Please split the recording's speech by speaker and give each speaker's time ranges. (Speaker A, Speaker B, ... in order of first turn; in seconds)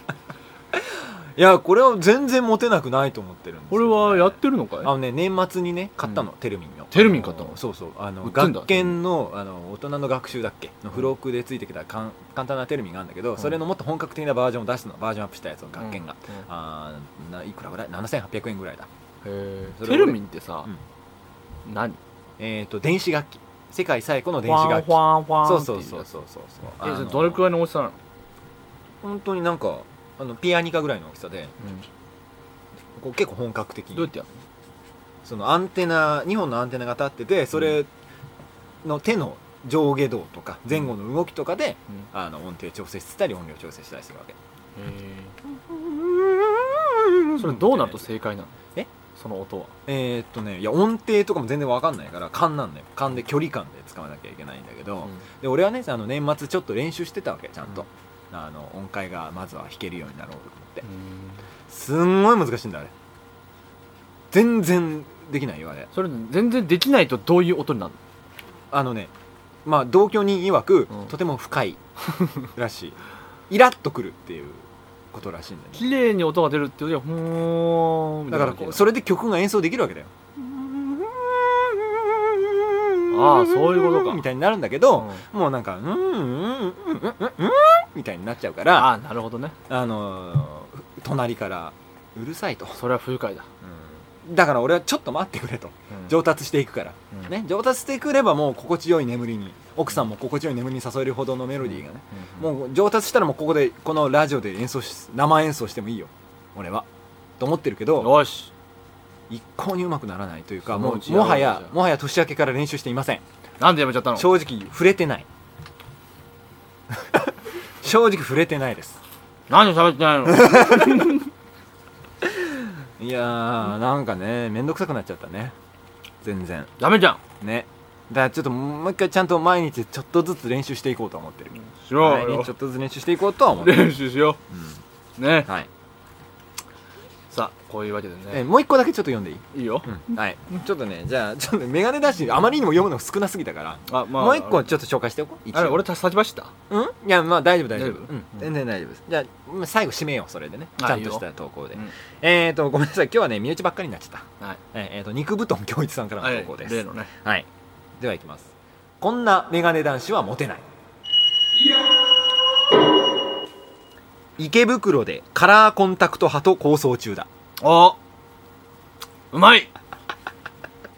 Speaker A: 0.7-18.9, 19.6-20.8, 22.4-27.4, 29.0-31.5, 33.0-34.1, 35.2-37.9, 38.8-44.4, 45.5-48.1, 49.9-60.8, 61.7-62.9, 64.3-65.9, 68.7-69.1, 69.6-75.8, 78.3-88.9, 89.7-92.8, 93.6-106.9, 107.4-108.2, 109.3-113.2, 114.2-115.3, 117.8-119.0, 120.4-121.1, 123.0-125.5, 126.2-126.7, 127.4-133.9, 134.5-134.8, 138.3-145.8, 146.7-157.5, 158.0-160.6, 164.4-167.3
Speaker B: 3.7-4.9, 6.9-7.6, 8.2-9.0, 15.8-16.4, 19.2-20.7, 21.6-22.0, 24.4-26.1, 26.8-28.0, 31.6-31.9, 34.0-34.4, 44.7-45.3, 47.4-48.6, 49.1-49.7, 60.8-61.4, 65.9-68.0, 75.7-78.8, 83.1-84.2, 85.0-85.2, 88.7-89.5, 92.7-93.5, 101.7-102.5, 108.0-108.5, 110.7-111.7, 113.6-114.3, 119.5-121.2, 126.8-127.2, 131.7-132.5, 133.6-134.4, 135.2-135.5, 137.3-138.4, 139.5-140.0, 143.9-144.7, 145.5-146.5, 147.7-148.4, 150.8-151.9, 156.2-157.1, 167.6-168.0, 169.3-169.7